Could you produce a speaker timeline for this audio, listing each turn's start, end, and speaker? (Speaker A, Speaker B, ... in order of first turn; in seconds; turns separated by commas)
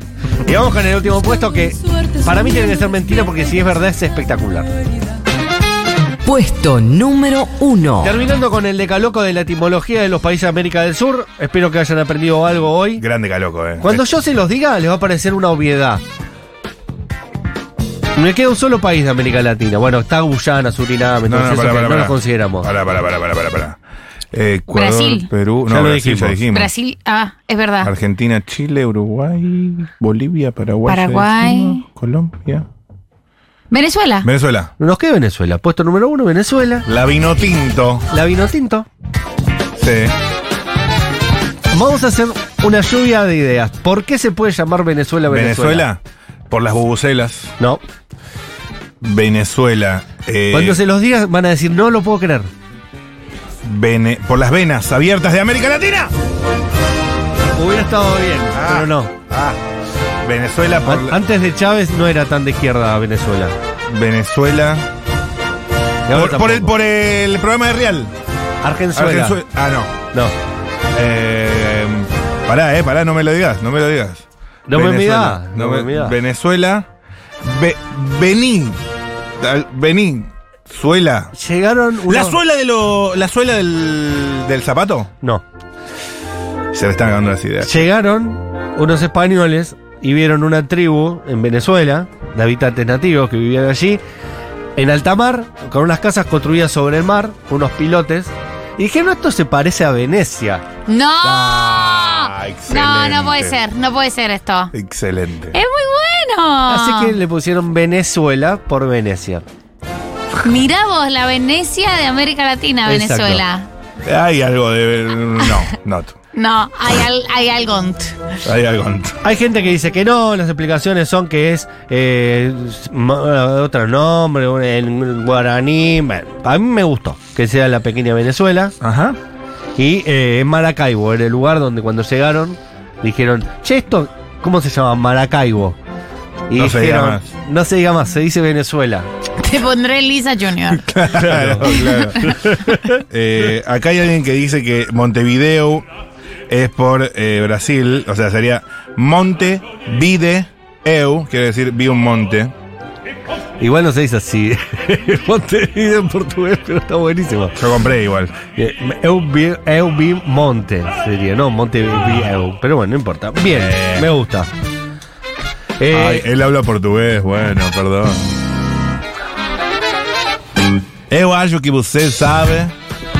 Speaker A: 0.4-4.7, Speaker B: 6.2-8.2, Speaker A: 8.0-13.0, Speaker C: 13.0-14.1, Speaker A: 13.8-16.0, Speaker A: 18.1-22.7, Speaker C: 21.3-23.8, Speaker C: 24.3-26.7, Speaker D: 24.7-25.3, Speaker A: 25.7-26.4, Speaker D: 26.5-27.9, Speaker C: 27.8-32.7, Speaker D: 30.9-31.8, Speaker D: 33.7-34.3, Speaker C: 34.2-34.7, Speaker A: 34.8-36.9, Speaker C: 36.9-38.0, Speaker A: 38.1-38.9, Speaker C: 39.8-40.1, Speaker A: 41.7-45.9, Speaker C: 45.3-47.5, Speaker C: 49.0-50.8, Speaker A: 50.5-52.5, Speaker C: 53.6-56.1, Speaker A: 57.5-59.1, Speaker C: 58.5-59.6, Speaker C: 60.2-61.2, Speaker A: 60.9-63.5, Speaker C: 63.9-64.9, Speaker A: 66.1-66.7, Speaker C: 66.1-68.1, Speaker A: 68.6-69.4, Speaker C: 68.9-70.0, Speaker C: 70.9-76.9, Speaker A: 74.7-76.2, Speaker C: 77.4-78.8, Speaker C: 79.4-81.3, Speaker A: 81.3-82.4, Speaker C: 82.0-85.1, Speaker C: 86.7-87.9, Speaker A: 87.6-94.0, Speaker A: 94.8-100.6, Speaker D: 100.9-104.7, Speaker C: 101.2-103.6, Speaker C: 104.7-105.5, Speaker D: 105.5-107.2, Speaker A: 106.7-109.4, Speaker D: 110.4-113.7, Speaker A: 112.8-113.4, Speaker C: 114.0-116.2, Speaker D: 116.3-118.2, Speaker C: 118.4-119.2, Speaker A: 119.2-128.7, Speaker C: 128.8-129.2, Speaker A: 129.8-135.8, Speaker A: 136.5-139.1, Speaker C: 136.5-137.2, Speaker D: 139.4-140.9, Speaker C: 140.7-145.8, Speaker A: 141.1-143.0, Speaker D: 141.7-142.0, Speaker C: 146.5-152.5, Speaker A: 153.6-157.6, Speaker C: 157.6-158.4, Speaker A: 158.6-164.5, Speaker C: 163.5-164.1, Speaker A: 165.8-166.3, Speaker C: 165.9-168.3, Speaker C: 171.1-172.7